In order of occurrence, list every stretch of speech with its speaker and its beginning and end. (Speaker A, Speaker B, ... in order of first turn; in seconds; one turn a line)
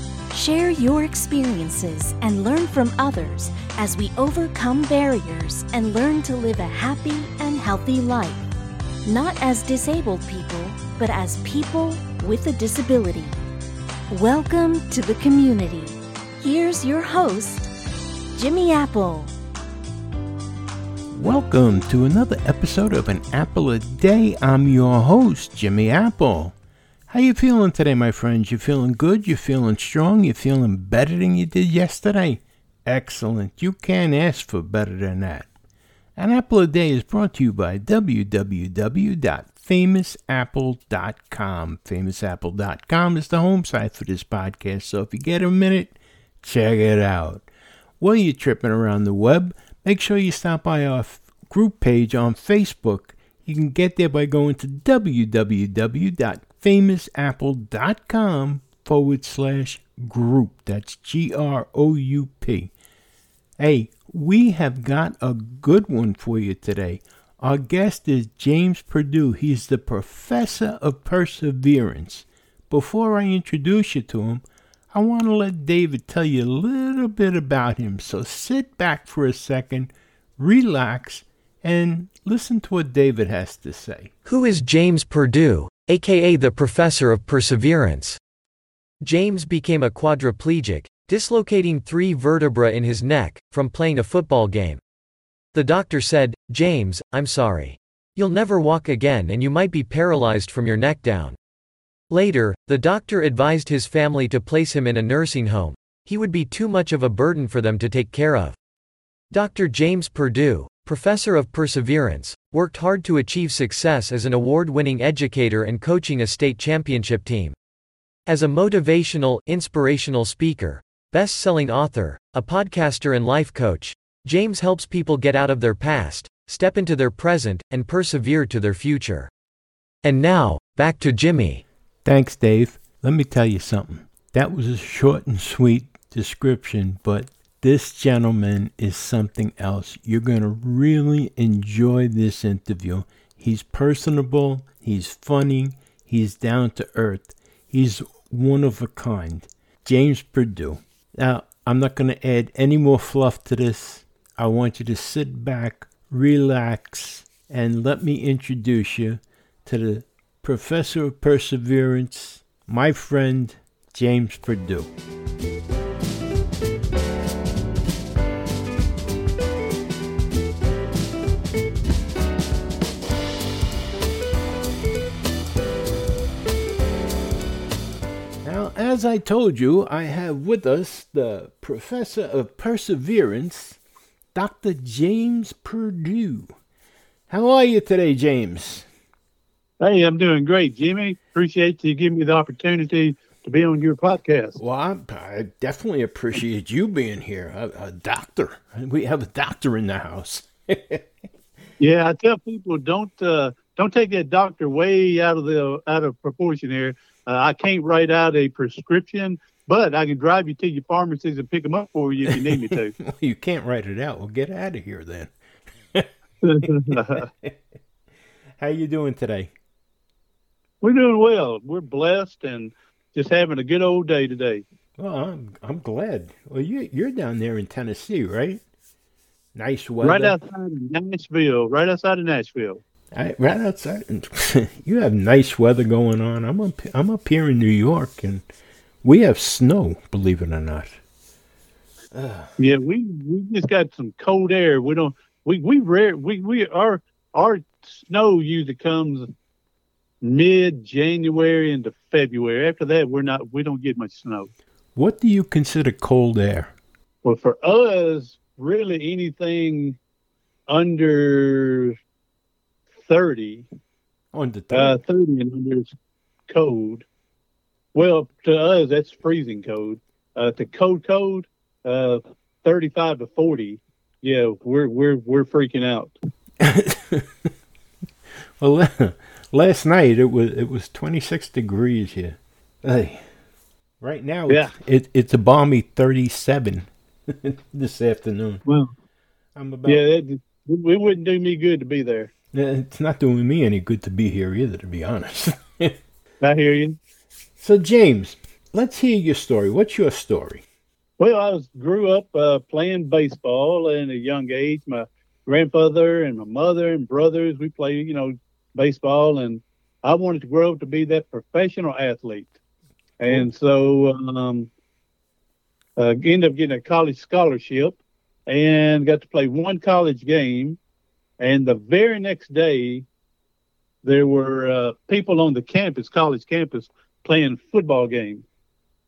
Speaker A: 0.3-8.4
Speaker A: 9.0-13.4
Speaker A: 14.1-17.7
Speaker A: 18.3-19.3
Speaker B: 21.1-26.5
Speaker B: 27.1-35.5
Speaker B: 36.2-47.5
Speaker B: 48.0-62.7
Speaker B: 63.6-84.1
Speaker C: 84.2-88.2
Speaker C: 89.0-94.8
Speaker C: 95.5-101.4
Speaker C: 102.1-108.5
Speaker C: 109.3-117.5
Speaker C: 118.3-129.3
Speaker C: 130.0-131.6
Speaker B: 132.0-164.9
Speaker B: 178.4-183.8
Speaker B: 184.3-186.5
Speaker B: 187.3-188.9
Speaker D: 189.8-194.6
Speaker B: 194.6-201.1
Speaker D: 201.8-212.9
Speaker B: 212.2-215.3
Speaker D: 216.4-217.3
Speaker B: 216.7-217.5
Speaker B: 218.6-219.5
Speaker D: 220.8-224.6
Speaker B: 225.0-228.6
Speaker B: 229.5-230.3
Speaker D: 230.0-232.8
Speaker B: 233.1-238.4
Speaker B: 239.0-241.0
Speaker B: 242.1-242.5
Speaker D: 242.6-249.3
Speaker D: 250.2-254.5
Speaker B: 254.9-256.7
Speaker D: 257.2-260.0
Speaker D: 260.7-261.9
Speaker D: 263.0-263.7
Speaker B: 264.3-265.0
Speaker D: 264.7-265.9
Speaker D: 266.5-267.1
Speaker D: 267.9-276.1
Speaker B: 276.6-277.5
Speaker B: 278.6-283.2
Speaker B: 284.0-288.6
Speaker D: 288.6-288.9
Speaker B: 289.5-290.0
Speaker D: 289.9-292.3
Speaker B: 292.5-296.0
Speaker D: 296.4-297.0
Speaker B: 297.6-300.6
Speaker D: 301.2-312.5
Speaker D: 313.2-314.7
Speaker D: 316.0-320.8
Speaker D: 321.4-323.1
Speaker D: 324.0-328.4